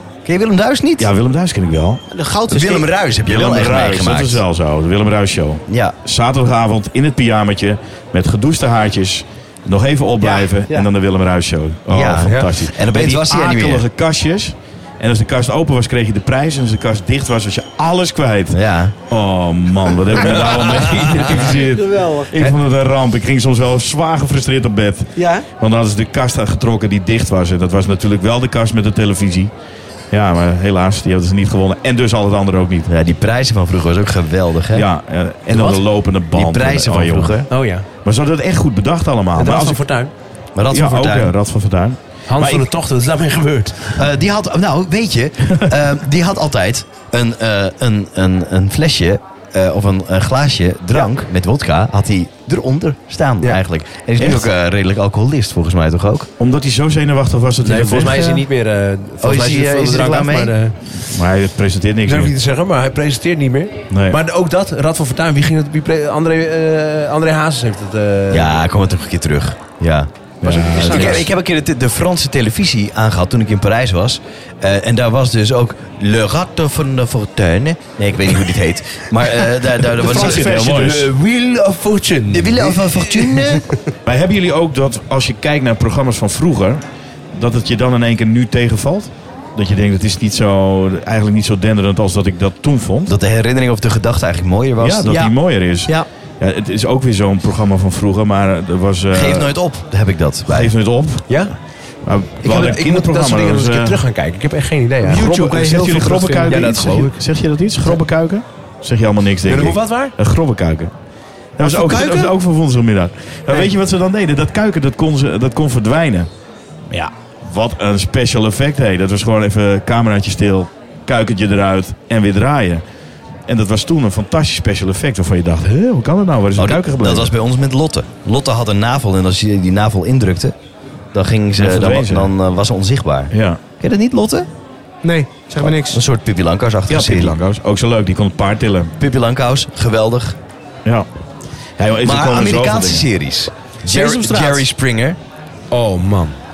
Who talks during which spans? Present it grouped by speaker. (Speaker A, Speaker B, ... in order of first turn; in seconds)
Speaker A: 0.2-1.1, 2.5-4.4, 5.7-5.9, 11.9-13.8, 18.5-18.9, 32.9-34.9, 36.3-37.5, 40.5-41.3, 44.0-56.3, 59.2-60.5, 68.3-70.1, 70.6-80.6, 82.3-83.7, 93.1-95.2, 99.1-100.7, 126.6-130.5, 131.1-134.5, 135.6-137.4, 139.0-140.4, 142.0-145.2
Speaker B: 1.0-2.0, 3.2-29.5, 30.1-32.9, 34.7-37.5, 38.0-39.8, 40.7-42.7, 54.2-54.5, 56.4-58.4, 61.0-62.3, 63.9-64.2, 70.4-71.3, 80.1-81.1, 84.0-86.8, 87.3-93.1, 94.8-99.5, 100.5-101.5, 102.0-104.0, 105.1-110.9, 111.6-116.3, 116.9-122.8, 123.5-127.3, 131.6-132.3, 133.3-133.6, 136.9-138.9, 141.8-143.1
Speaker C: 2.1-2.9, 10.2-10.9, 21.5-22.3, 25.2-25.4, 79.9-80.9, 95.1-96.0, 105.0-106.7, 111.6-112.3, 135.0-136.0, 143.8-144.6
Speaker D: 12.2-12.5, 20.8-21.2, 35.5-35.8, 37.5-37.9, 39.4-40.1, 42.3-44.0, 57.6-60.8, 62.0-68.6, 70.4-71.3, 80.3-83.8, 101.3-101.5, 102.4-107.2, 109.5-110.1, 145.7-146.3